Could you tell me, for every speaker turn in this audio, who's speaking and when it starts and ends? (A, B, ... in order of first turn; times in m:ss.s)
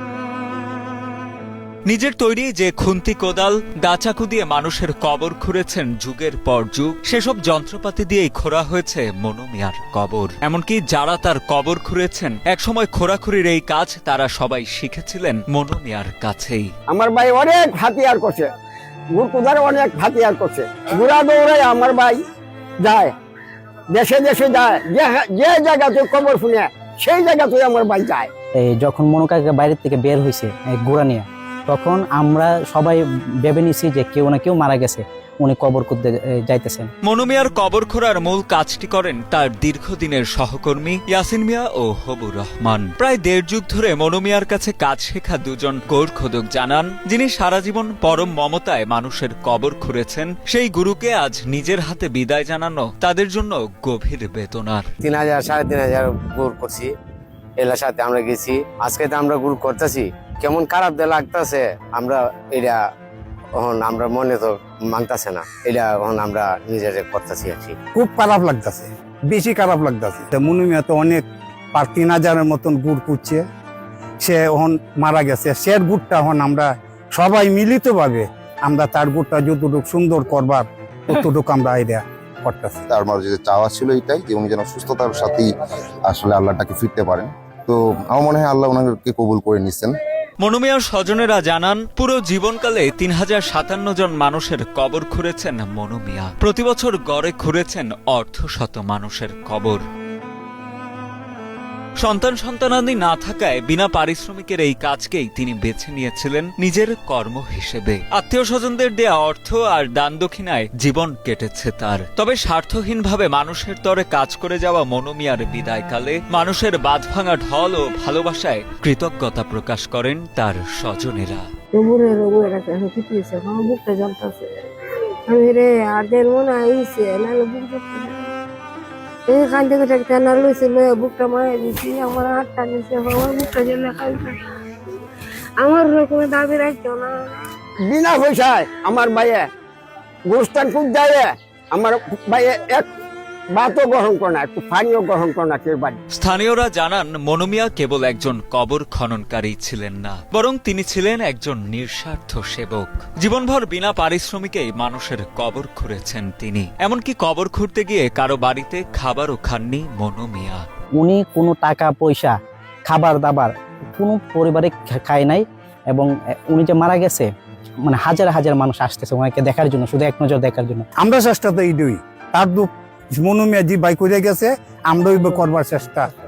0:01.9-0:16.7 A
0:16.9-0:18.5 B
0:19.2-0:22.2 B
0:22.8-0:23.1 B
0:23.9-0:28.3 B
0:28.6-0:36.9 C
0:37.0-0:54.9 A
0:55.0-0:56.9 D
0:57.6-1:02.8 D
1:03.6-1:07.8 D
1:07.9-1:13.4 E
1:14.2-1:22.8 E
1:22.9-1:25.5 F
1:26.0-1:30.0 F
1:30.4-1:39.8 A
1:42.0-2:01.5 A
2:01.7-2:04.6 G
2:05.3-2:08.3 G
2:09.3-2:14.4 G
2:15.6-2:17.3 G
2:17.9-2:19.4 B
2:20.3-2:22.9 B
2:23.5-2:26.0 B
2:26.1-2:40.6 A
2:41.0-2:42.3 C
2:42.9-2:47.3 C
2:47.9-2:50.8 C
2:51.0-2:56.1 E